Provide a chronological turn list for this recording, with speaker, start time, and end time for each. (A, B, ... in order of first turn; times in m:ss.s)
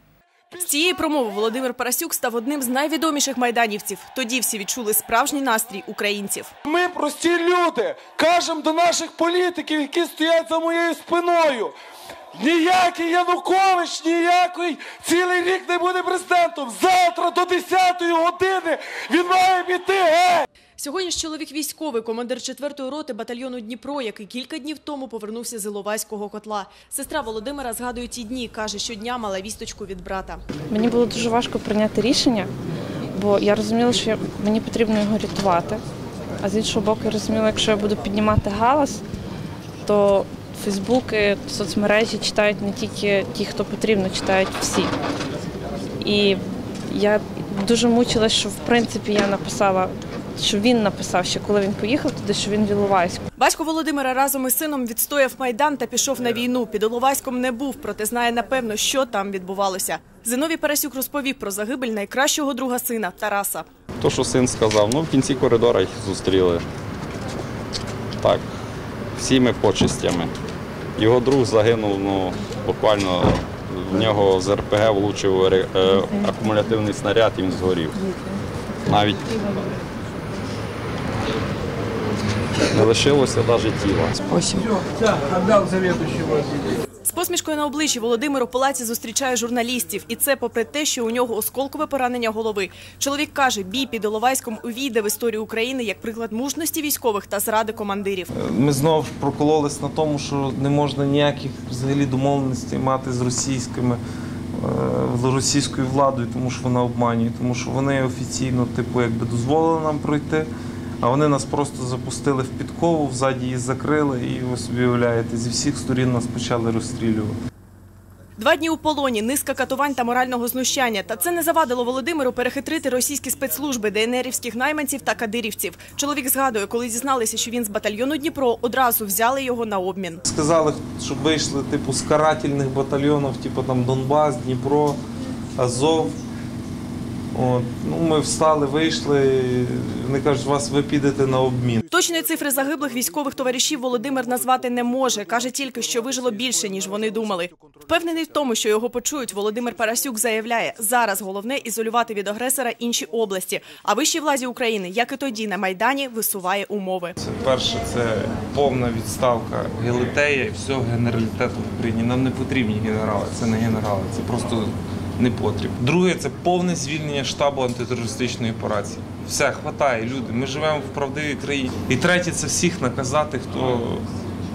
0:00.5-0:06.5 A
0:06.6-0:11.8 B
0:12.3-0:20.5 B
0:20.8-0:30.4 A
0:30.7-0:32.5 C
0:33.1-0:35.8 C
0:36.4-0:39.0 C
0:39.9-0:44.9 C
0:46.0-0:53.2 C
0:53.4-1:03.7 A
1:04.0-1:06.6 D
1:09.2-1:10.3 D
1:11.0-1:18.0 D
1:18.9-1:19.4 D
1:22.7-1:24.2 D
1:25.4-1:26.4 B
1:27.1-1:38.3 A
1:38.3-1:44.0 E
1:44.6-1:50.5 E
1:51.0-1:57.3 E
1:58.4-2:10.2 A
2:10.2-2:15.0 E
2:15.6-2:16.2 E
2:17.3-2:21.8 E
2:21.9-2:37.2 A
2:37.2-2:54.0 E